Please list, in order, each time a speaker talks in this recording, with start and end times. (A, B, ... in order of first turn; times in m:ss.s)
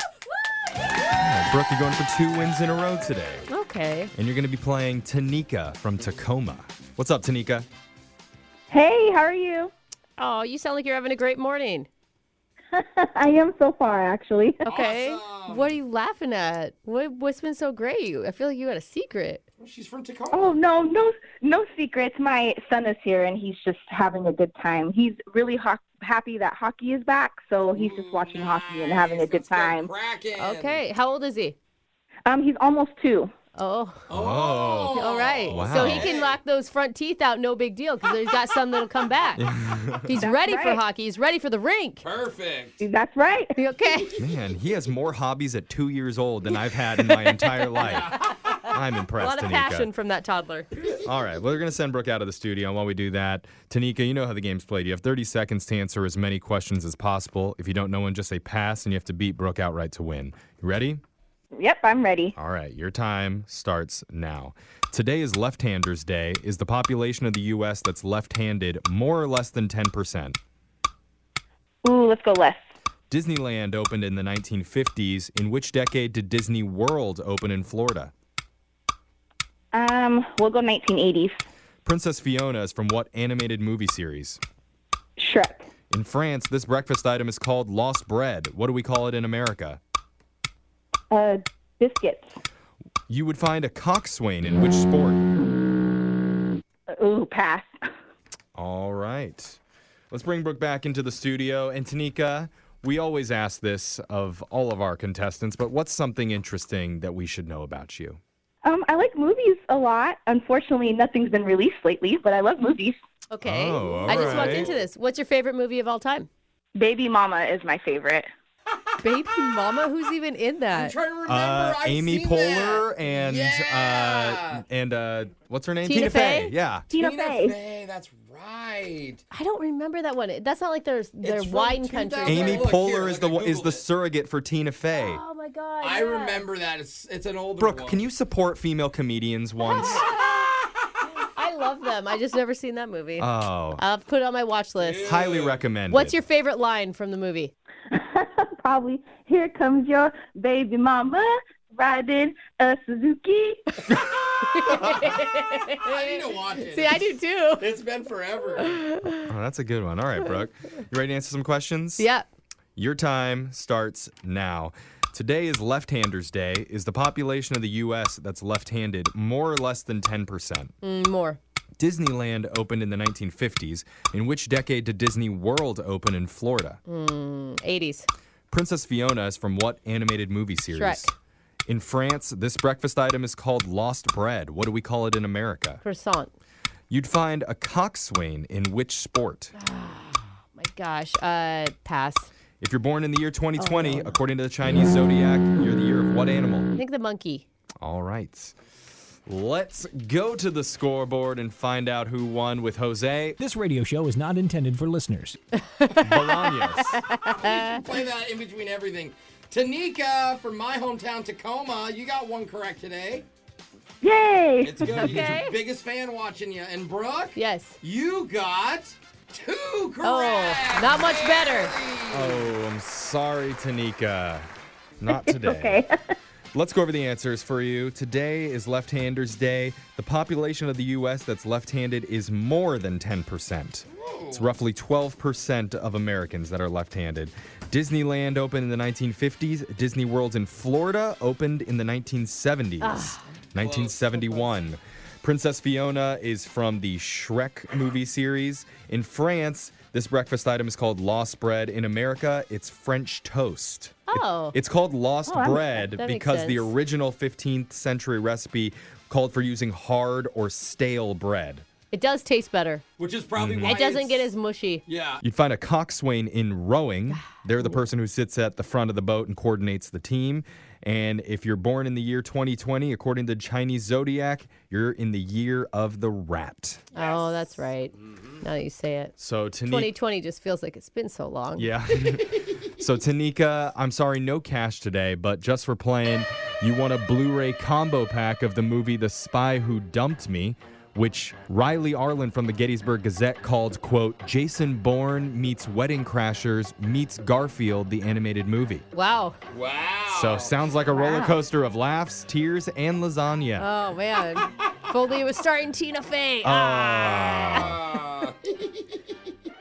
0:01.1-0:03.5 A
0:03.5-0:04.1 B
0:04.2-0:07.7 A
0:08.7-0:09.7 C
0:10.2-0:11.9 B
0:12.7-0:14.7 C
0:14.6-0:19.4 B
0:14.7-0:15.8 D
0:19.6-0:20.6 D
0:20.3-0:29.9 C
0:27.7-0:30.8 D
0:30.4-0:31.6 B
0:32.3-0:33.3 C
0:33.6-0:34.1 B
0:34.1-0:36.4 D
0:34.1-0:36.1 A
0:35.0-0:39.4 B
0:35.0-0:35.3 C
0:39.4-0:40.2 A
0:40.1-0:42.0 B
0:40.2-0:40.8 C
0:42.0-0:42.8 D
0:42.8-0:43.6 C
0:43.6-0:44.2 B
0:44.2-0:49.9 A
0:47.1-0:48.6 B
0:47.8-0:48.1 D
0:49.2-0:50.7 B
0:50.8-1:01.0 A
1:01.5-1:02.4 C
1:02.4-1:10.4 A
1:11.8-1:12.6 C
1:13.1-1:18.1 A
1:19.7-1:21.4 C
1:21.8-1:24.4 A
1:25.2-1:25.7 C
1:25.9-1:29.8 A
1:31.1-1:32.3 C
1:33.1-1:35.2 A
1:37.0-1:37.8 C
1:38.6-1:39.6 A
1:40.1-1:48.2 A
1:48.6-1:53.0 C
1:53.3-1:56.3 B
1:53.4-1:54.8 A
1:54.0-1:54.9 D
1:56.8-1:58.3 C
1:59.0-2:01.0 B
2:00.7-2:04.6 D
2:01.3-2:06.9 A
2:05.8-2:06.5 B
2:06.9-2:09.2 D
2:06.9-2:07.6 C
2:09.3-2:12.7 B
2:11.2-2:13.8 D
2:12.3-2:15.2 A
2:15.0-2:16.4 B
2:15.8-2:18.0 D
2:17.6-2:20.1 A
2:19.8-2:20.6 B
2:21.3-2:25.1 B
2:23.2-2:23.8 A
2:24.8-2:25.6 D
2:25.0-2:26.2 A
2:25.9-2:27.5 B
2:27.9-2:33.8 C
2:34.4-2:37.7 B
2:35.8-2:37.1 D
2:37.6-2:38.8 D
2:38.8-2:39.3 B
2:39.2-2:42.1 A
2:42.0-2:42.3 B
2:42.8-2:50.7 A
2:50.8-2:51.4 B
2:51.8-2:56.8 A
2:56.9-2:58.1 B
2:58.5-3:01.1 A
3:00.7-3:01.1 B
3:01.7-3:05.8 A
3:05.8-3:06.3 B
3:06.9-3:09.5 A
3:09.6-3:12.3 B
3:12.6-3:16.7 A
3:13.6-3:14.2 B
3:16.8-3:17.4 B
3:17.8-3:18.5 A
3:19.3-3:23.4 A
3:23.4-3:25.4 E
3:25.8-3:26.2 B
3:26.0-3:27.0 A
3:26.9-3:27.5 B
3:27.1-3:33.2 D
3:34.0-3:35.2 C
3:34.6-3:42.4 D
3:34.8-3:35.6 B
3:37.4-3:37.8 B
3:40.0-3:41.7 B
3:42.1-3:44.5 A
3:45.0-3:45.8 A
3:45.1-3:46.1 C
3:46.5-4:21.6 A
3:53.9-3:54.5 D
4:02.8-4:03.3 B
4:03.6-4:04.2 D
4:14.1-4:14.6 B
4:15.3-4:15.8 C
4:15.9-4:16.7 B
4:21.9-4:22.8 B
4:23.0-4:24.3 D
4:23.4-4:23.8 A
4:23.6-4:24.8 B
4:24.9-4:25.2 D
4:25.2-4:36.8 A
4:27.1-4:27.8 B
4:36.9-4:39.1 B
4:37.0-4:37.5 D
4:39.2-4:39.9 A
4:39.7-4:41.7 B
4:41.6-4:58.8 A
4:58.9-4:59.4 B
4:59.5-5:00.6 D
5:00.1-5:03.7 A
5:00.9-5:01.4 B
5:03.6-5:07.7 B
5:06.4-5:07.8 A
5:07.5-5:08.8 D